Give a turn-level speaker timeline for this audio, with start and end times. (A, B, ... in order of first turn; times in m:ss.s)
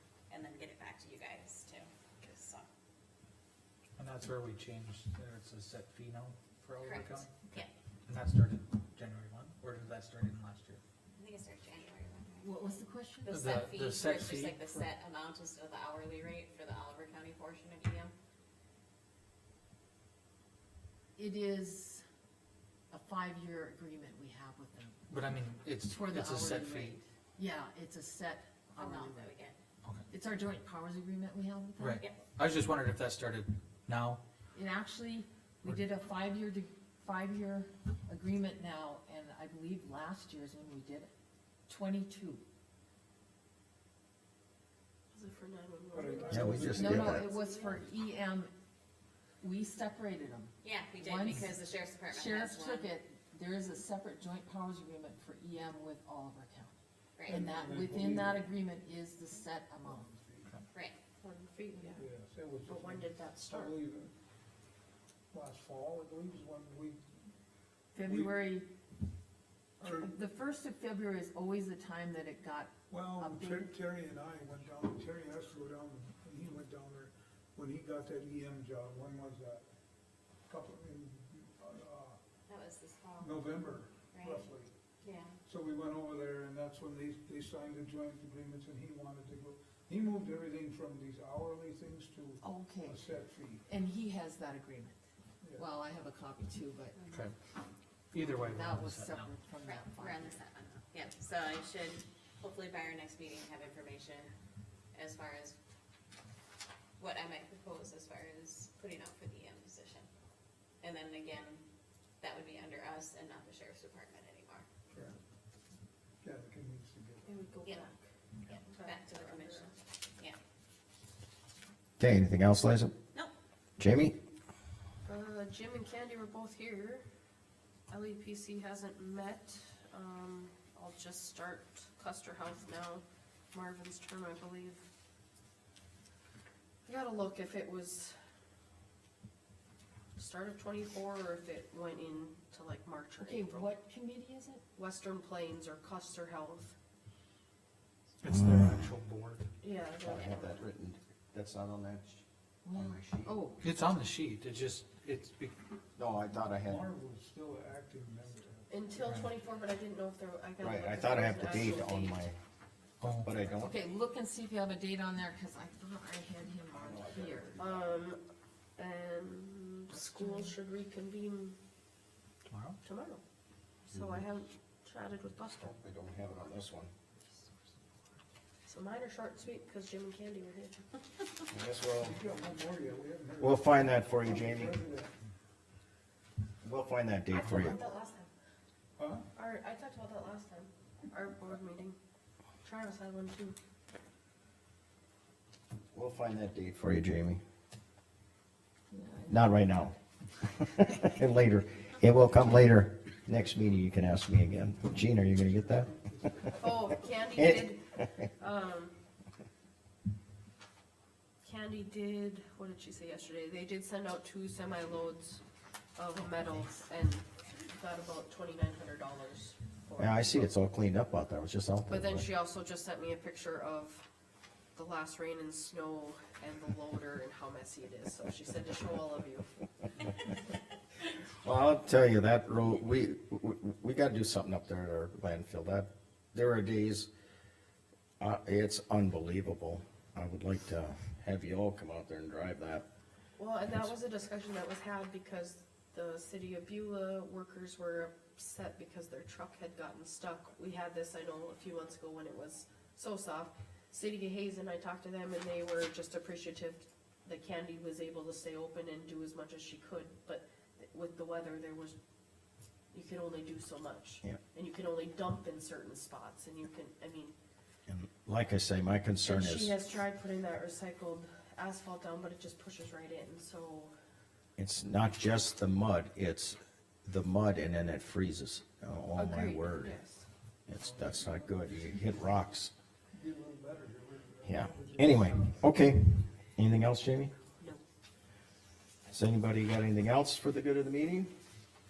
0:00.3-0:02.6 A
0:04.0-0:07.3 B
0:06.8-0:07.7 A
0:08.1-0:10.8 B
0:11.2-0:18.1 A
0:12.4-0:13.4 C
0:13.3-0:14.9 B
0:21.2-0:22.0 C
0:22.9-0:25.1 C
0:25.1-0:27.0 B
0:25.8-0:29.3 C
0:28.8-0:29.6 A
0:30.1-0:32.0 C
0:31.8-0:34.2 B
0:34.5-0:41.1 C
0:41.7-0:42.4 C
0:45.1-0:47.8 D
0:45.9-0:47.1 E
0:46.3-0:47.3 F
0:46.6-0:48.5 C
0:49.4-0:56.7 C
0:50.6-0:52.9 A
0:57.2-0:57.5 A
0:57.3-0:58.6 E
0:57.3-1:00.1 C
0:59.8-1:00.5 E
1:00.7-1:01.0 A
1:01.2-1:02.0 D
1:01.9-1:04.1 E
1:02.6-1:03.8 D
1:05.3-1:07.0 E
1:07.9-1:08.7 C
1:08.0-1:08.4 E
1:09.8-1:10.2 E
1:09.8-1:13.7 C
1:12.9-1:19.6 E
1:20.5-1:22.2 E
1:22.5-1:23.5 A
1:23.2-1:24.7 E
1:24.1-1:24.5 A
1:25.0-1:25.3 A
1:25.4-1:33.6 E
1:32.4-1:33.1 C
1:33.7-1:35.0 C
1:35.4-1:35.7 E
1:35.6-1:37.0 C
1:36.9-1:37.2 A
1:38.1-1:39.3 B
1:38.2-1:40.4 C
1:39.6-1:44.3 A
1:44.9-1:45.5 A
1:47.0-1:50.1 A
1:50.8-1:51.6 A
1:52.2-1:54.6 A
1:54.9-1:55.2 E
1:56.2-1:57.8 E
1:57.3-1:57.9 D
1:58.5-2:00.4 A
1:58.6-1:59.7 D
2:02.0-2:02.9 F
2:03.8-2:04.2 F
2:05.0-2:07.0 D
2:07.9-2:14.8 D
2:16.8-2:18.2 D
2:20.2-2:23.7 D
2:23.2-2:24.6 C
2:24.7-2:26.7 D
2:28.2-2:29.5 B
2:28.5-2:28.8 F
2:29.6-2:30.6 D
2:30.0-2:33.4 F
2:32.6-2:33.6 C
2:33.6-2:35.5 B
2:36.0-2:36.8 F
2:36.7-2:39.3 E
2:38.7-2:42.3 D
2:39.0-2:39.3 B
2:40.6-2:42.4 F
2:43.0-2:43.4 B
2:43.2-2:43.8 F
2:43.6-2:47.6 C
2:46.7-2:48.0 F
2:47.6-2:48.2 D
2:48.8-2:51.6 D
2:49.9-2:50.6 C
2:52.5-2:52.8 B
2:52.8-2:53.2 D
2:53.8-2:55.7 D
2:54.0-2:54.2 F
2:55.6-2:56.9 F
2:58.6-3:01.5 D
3:01.5-3:02.2 F
3:02.0-3:05.3 E
3:03.4-3:04.8 F
3:06.6-3:07.8 F
3:07.4-3:08.3 D
3:09.0-3:09.3 E
3:09.3-3:12.0 D
3:12.6-3:13.6 D
3:15.9-3:17.4 F
3:18.9-3:19.6 C
3:19.3-3:25.9 F
3:25.4-3:26.8 E
3:26.5-3:28.9 D
3:27.3-3:27.8 F
3:31.4-3:35.4 D
3:36.0-3:40.5 D
3:40.0-3:42.3 F
3:41.9-3:44.0 D
3:44.7-3:49.5 D
3:51.4-3:57.1 F
3:58.2-4:02.8 F
4:03.4-4:22.0 D
4:22.9-4:27.3 D
4:27.9-4:29.8 F
4:29.2-4:33.9 D
4:34.6-4:40.0 F
4:39.2-4:40.2 D
4:40.7-4:42.7 F
4:40.8-4:41.6 E
4:43.1-4:45.7 E
4:44.4-4:47.3 F
4:49.1-4:51.3 F